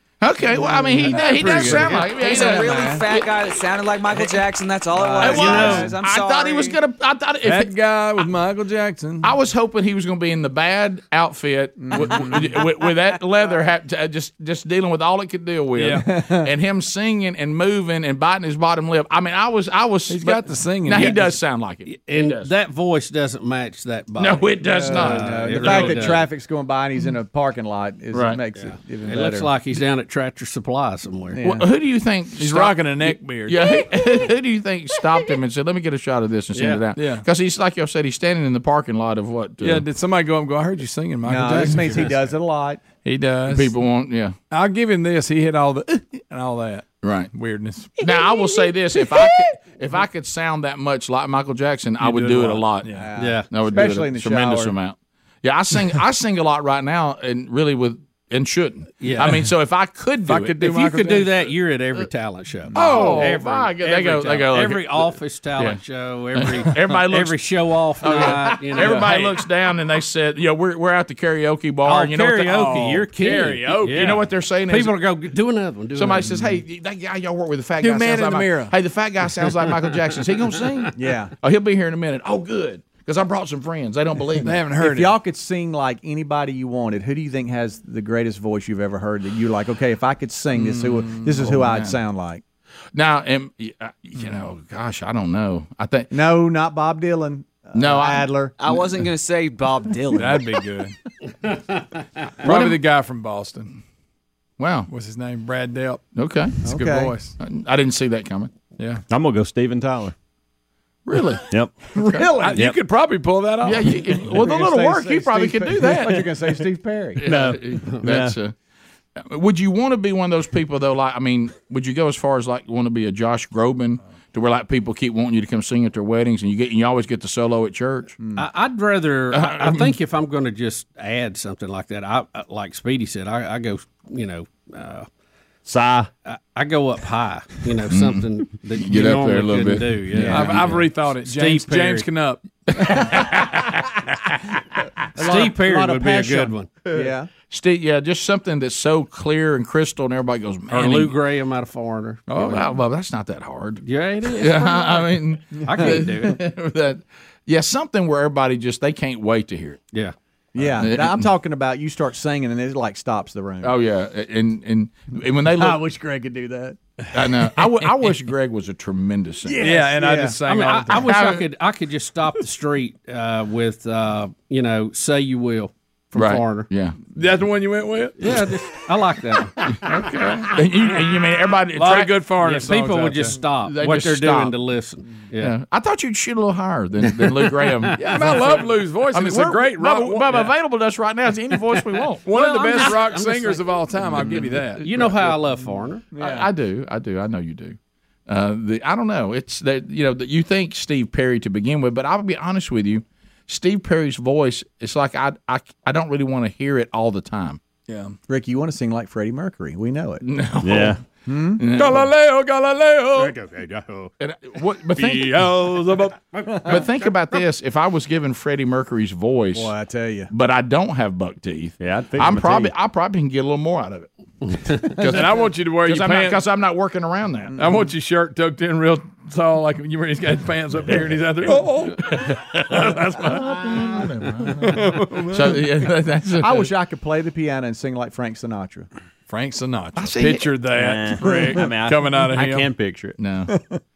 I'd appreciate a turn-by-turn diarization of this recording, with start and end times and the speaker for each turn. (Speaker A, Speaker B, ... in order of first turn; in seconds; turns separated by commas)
Speaker A: 0.2-3.1, Speaker B: 0.5-3.2, Speaker C: 1.0-2.1, Speaker D: 2.1-6.8, Speaker B: 4.9-5.9, Speaker A: 5.2-7.7, Speaker C: 7.4-9.3, Speaker A: 9.2-22.5, Speaker B: 11.8-12.7, Speaker C: 15.8-16.1, Speaker B: 15.9-16.5, Speaker C: 20.1-21.4, Speaker E: 21.9-26.2, Speaker A: 24.2-26.2, Speaker B: 24.6-29.5, Speaker A: 28.1-28.4, Speaker E: 28.6-31.4, Speaker B: 31.3-31.7, Speaker A: 31.4-39.9, Speaker C: 32.4-33.8, Speaker E: 36.5-36.8, Speaker C: 37.0-37.2, Speaker C: 39.6-42.3, Speaker B: 41.2-42.8, Speaker C: 43.0-43.7, Speaker A: 43.5-44.4, Speaker C: 44.5-48.0, Speaker A: 47.0-47.3, Speaker A: 48.0-52.9, Speaker C: 52.0-53.1, Speaker B: 52.9-54.7, Speaker E: 53.2-53.5, Speaker A: 53.5-61.1, Speaker E: 59.0-59.5, Speaker C: 60.2-61.3, Speaker E: 60.6-69.3, Speaker B: 62.7-63.3, Speaker A: 62.7-65.8, Speaker C: 62.9-63.3, Speaker A: 66.3-67.4, Speaker A: 68.0-72.9, Speaker C: 68.8-69.3, Speaker E: 71.8-76.4, Speaker C: 72.5-74.1, Speaker A: 73.8-74.9, Speaker A: 75.9-84.6, Speaker C: 77.8-78.7, Speaker B: 80.9-81.3, Speaker C: 84.4-85.1, Speaker B: 84.8-92.4, Speaker C: 90.6-91.2, Speaker A: 91.3-92.0, Speaker A: 92.9-96.1, Speaker B: 96.1-98.5, Speaker A: 97.7-98.3, Speaker D: 98.6-100.4, Speaker C: 100.1-100.9, Speaker C: 102.4-103.8, Speaker A: 102.4-102.8, Speaker A: 104.6-104.9, Speaker C: 104.9-106.0, Speaker A: 106.2-106.6, Speaker C: 106.6-107.3, Speaker B: 106.6-107.2, Speaker A: 107.4-108.5, Speaker C: 108.8-109.0, Speaker F: 109.1-110.1, Speaker A: 111.0-112.3, Speaker F: 111.5-111.8, Speaker B: 111.9-112.7, Speaker C: 112.3-114.1, Speaker A: 113.6-116.3, Speaker B: 114.2-117.5, Speaker A: 117.2-118.5, Speaker F: 117.2-118.3, Speaker A: 119.2-128.2, Speaker B: 128.2-128.4, Speaker E: 128.3-135.1, Speaker A: 129.3-129.9, Speaker F: 135.7-136.1, Speaker E: 136.2-142.1, Speaker A: 137.9-138.2, Speaker A: 138.8-140.8, Speaker B: 140.1-140.5, Speaker C: 140.2-142.4, Speaker A: 142.8-143.9, Speaker B: 145.1-147.3, Speaker E: 145.2-146.7, Speaker A: 147.5-151.1, Speaker E: 150.7-152.6, Speaker C: 152.3-152.7, Speaker A: 152.4-159.8, Speaker E: 153.8-156.4, Speaker B: 155.5-156.1, Speaker B: 160.5-163.8, Speaker A: 160.8-161.3, Speaker A: 163.6-165.8, Speaker B: 165.4-166.8, Speaker A: 167.1-169.7, Speaker B: 169.4-170.4, Speaker C: 169.6-171.2, Speaker E: 170.4-176.7, Speaker A: 170.9-171.4, Speaker A: 176.1-177.0, Speaker C: 177.1-178.5, Speaker E: 178.2-179.5, Speaker A: 179.7-182.2, Speaker C: 181.7-183.4, Speaker E: 182.4-185.5, Speaker A: 183.6-184.5, Speaker A: 185.4-192.9, Speaker E: 187.0-188.6, Speaker C: 187.9-190.5, Speaker C: 192.2-195.2, Speaker E: 192.3-196.0, Speaker B: 196.1-196.5, Speaker A: 196.2-207.6, Speaker C: 207.9-208.2, Speaker B: 208.3-210.2, Speaker A: 210.2-211.0, Speaker F: 210.6-211.0, Speaker B: 211.2-211.6, Speaker A: 211.6-212.1, Speaker C: 211.7-213.4, Speaker E: 213.7-214.1, Speaker A: 214.2-215.6, Speaker C: 214.9-216.2, Speaker A: 216.6-219.7, Speaker B: 219.5-220.3, Speaker A: 220.3-227.6, Speaker F: 221.8-222.7, Speaker C: 225.0-226.4, Speaker C: 227.6-233.4, Speaker A: 231.8-236.7, Speaker C: 234.5-235.6, Speaker B: 236.3-238.9, Speaker C: 239.3-242.7, Speaker A: 240.0-240.6, Speaker F: 240.7-243.2, Speaker B: 241.2-241.7, Speaker A: 243.2-243.5, Speaker B: 243.5-243.7